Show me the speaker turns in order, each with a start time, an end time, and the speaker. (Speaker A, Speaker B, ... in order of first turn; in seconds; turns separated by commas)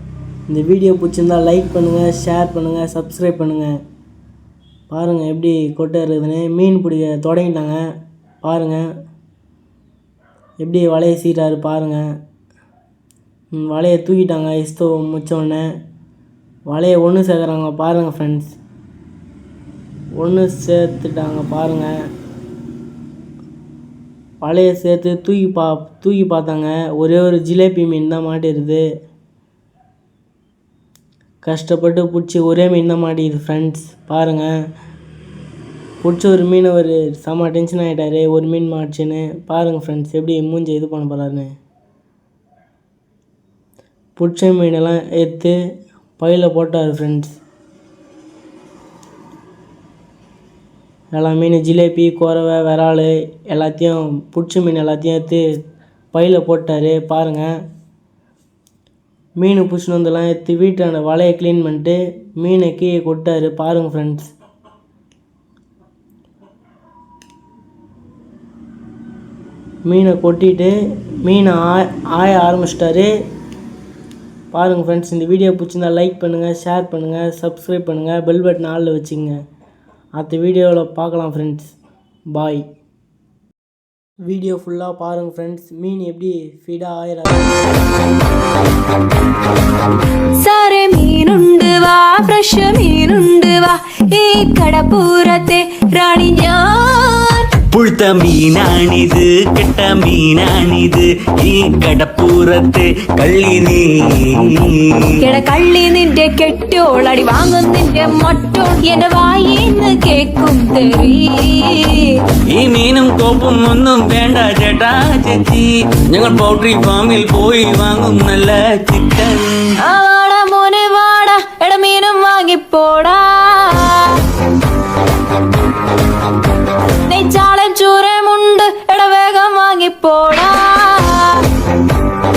Speaker A: 0.5-3.8, Speaker A: 4.9-7.8, Speaker A: 8.4-8.8, Speaker A: 10.6-12.1, Speaker A: 13.5-15.7, Speaker A: 16.7-18.5, Speaker A: 20.2-21.9, Speaker A: 24.4-28.8, Speaker A: 31.4-34.5, Speaker A: 36.0-41.5, Speaker A: 44.2-45.5, Speaker A: 46.2-47.4, Speaker A: 51.1-55.4, Speaker A: 56.1-57.5, Speaker A: 59.4-64.3, Speaker A: 69.8-73.1, Speaker A: 74.5-79.4, Speaker A: 80.2-81.7, Speaker A: 82.3-82.6, Speaker A: 84.2-87.5, Speaker B: 90.4-97.5, Speaker C: 97.7-105.2, Speaker B: 105.2-112.1, Speaker C: 112.5-119.8, Speaker B: 119.8-124.2, Speaker B: 127.1-131.4